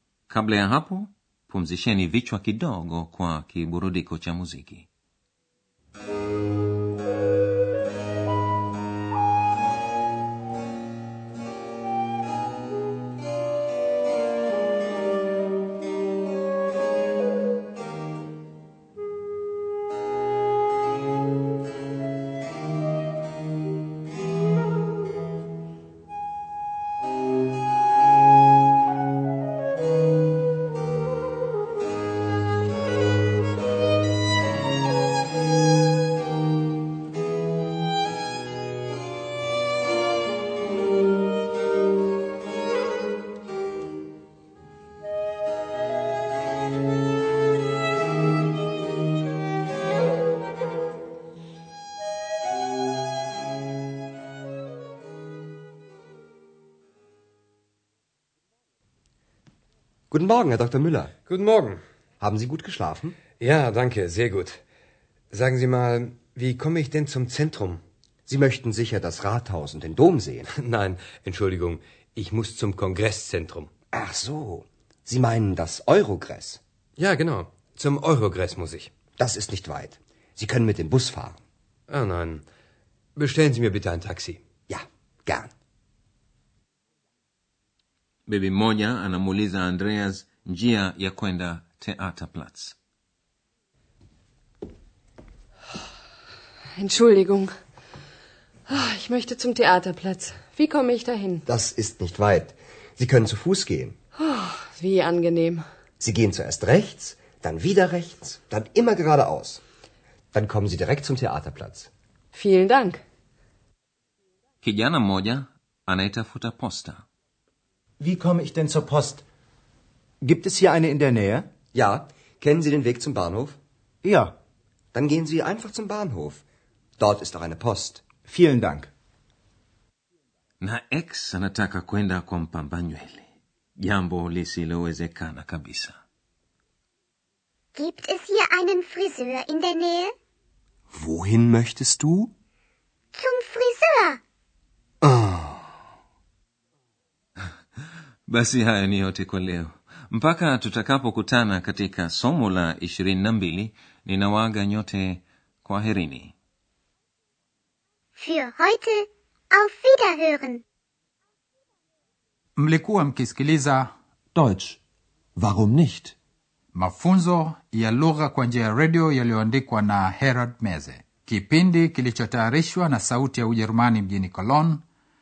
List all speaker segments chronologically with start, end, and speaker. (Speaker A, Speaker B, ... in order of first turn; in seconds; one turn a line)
Speaker A: 0.3-4.9
Speaker B: 60.1-61.1
Speaker C: 61.3-61.8
Speaker B: 62.2-63.2
Speaker C: 63.4-64.6
Speaker C: 65.3-67.8
Speaker B: 68.3-70.5
Speaker C: 70.5-73.7
Speaker B: 73.9-76.6
Speaker C: 77.0-79.0
Speaker B: 79.2-81.4
Speaker C: 81.9-82.5
Speaker C: 83.2-84.4
Speaker B: 84.7-85.5
Speaker A: 88.3-92.8
Speaker D: 96.8-97.5
Speaker D: 98.7-101.4
Speaker B: 101.5-104.0
Speaker D: 104.2-105.7
Speaker B: 106.0-109.6
Speaker B: 110.3-111.9
Speaker D: 112.3-113.0
Speaker A: 114.6-117.0
Speaker E: 118.0-119.2
Speaker E: 120.2-121.5
Speaker B: 121.7-123.6
Speaker E: 124.0-124.4
Speaker B: 124.9-126.4
Speaker B: 127.0-128.1
Speaker E: 128.2-128.9
Speaker A: 130.6-136.0
Speaker F: 137.8-140.2
Speaker B: 140.9-142.3
Speaker F: 143.1-144.2
Speaker B: 145.0-145.7
Speaker A: 148.3-156.3
Speaker F: 158.2-160.6
Speaker G: 162.6-163.9
Speaker E: 164.3-164.8
Speaker E: 165.4-166.0
Speaker G: 166.7-174.8